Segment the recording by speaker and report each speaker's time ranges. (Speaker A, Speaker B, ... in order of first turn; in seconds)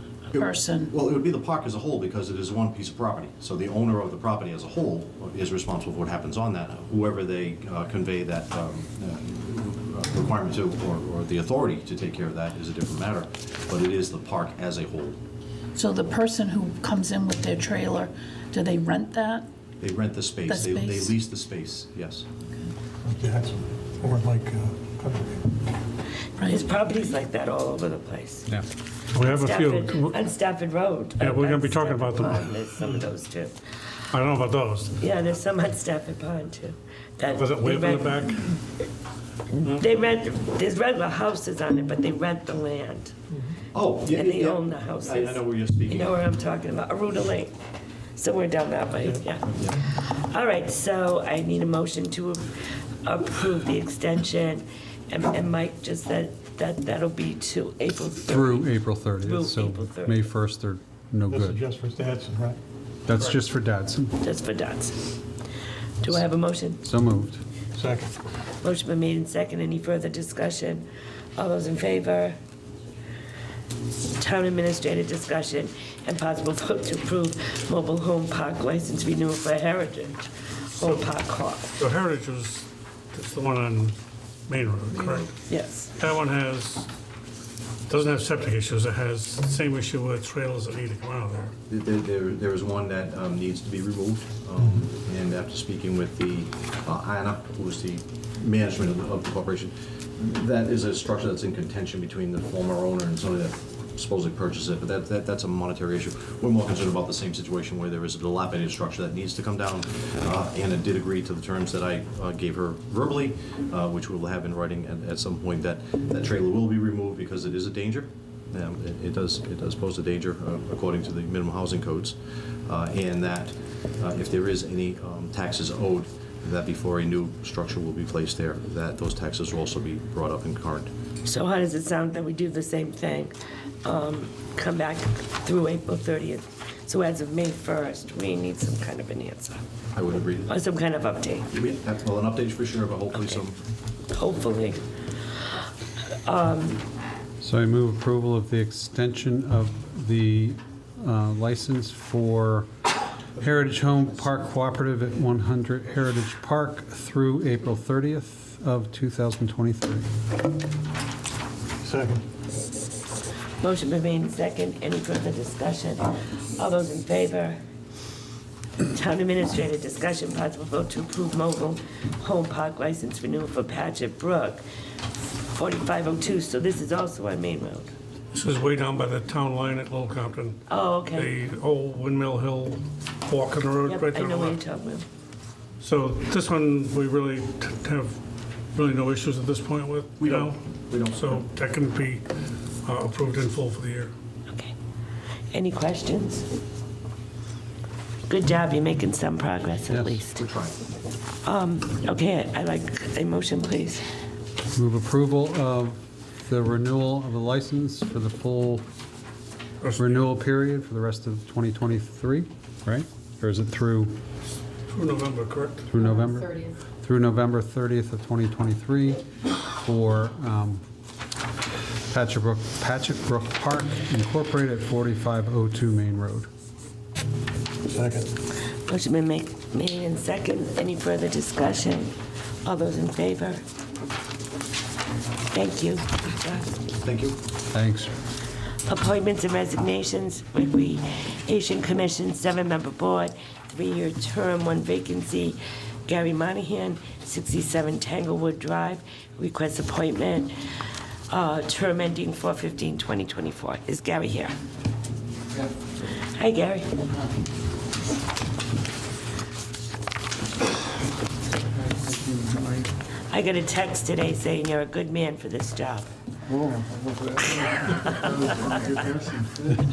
Speaker A: 0.3-0.9, 15.8-19.5, 20.5-21.1, 26.4-26.7
Speaker B: 0.3-15.2, 19.8-22.2, 43.7-46.1, 49.5-49.8, 84.9-85.3, 91.7-130.9, 139.9-140.5, 141.5-143.6, 190.2-191.4, 200.3-200.8, 237.0-237.4
Speaker C: 23.0-25.5, 61.3-62.6, 67.7-68.1, 161.8-162.2, 227.9-228.3
Speaker D: 26.4-28.5, 29.2-33.5, 35.0-38.3, 39.6-43.1, 44.1-47.5, 48.1-60.3, 64.2-65.0, 66.0-66.8, 68.6-70.8, 71.4-72.4, 74.1-81.8, 85.5-85.9, 131.2-139.6, 140.5-141.5, 143.1-143.4, 144.1-144.8, 146.2-146.8, 163.6-167.6, 168.9-174.6, 175.5-177.9, 180.7-181.3, 183.8-185.1, 195.5-196.4, 198.3-200.4, 201.4-204.0, 228.9-232.1, 232.6-233.6, 235.5-236.8, 238.9-250.5, 251.3-254.5, 256.2-256.9, 263.3-266.1, 267.7-268.9
Speaker E: 29.1-30.2, 31.2-32.8, 34.1-35.0, 37.4-38.5, 80.8-81.1, 81.8-84.0, 84.5-85.3, 86.0-86.9, 87.9-91.5, 178.3-180.6, 181.1-184.6, 185.8-188.2, 188.7-190.6, 191.1-192.3, 192.8-194.1, 209.8-210.2, 214.9-215.9
Speaker F: 58.2-61.6, 63.0-64.2, 66.8-67.4, 147.4-152.7, 153.3-160.1, 199.9-200.2, 204.7-208.8, 209.9-214.2, 215.9-220.8, 222.1-226.5, 237.7-238.1, 261.9-262.7, 266.6-269.4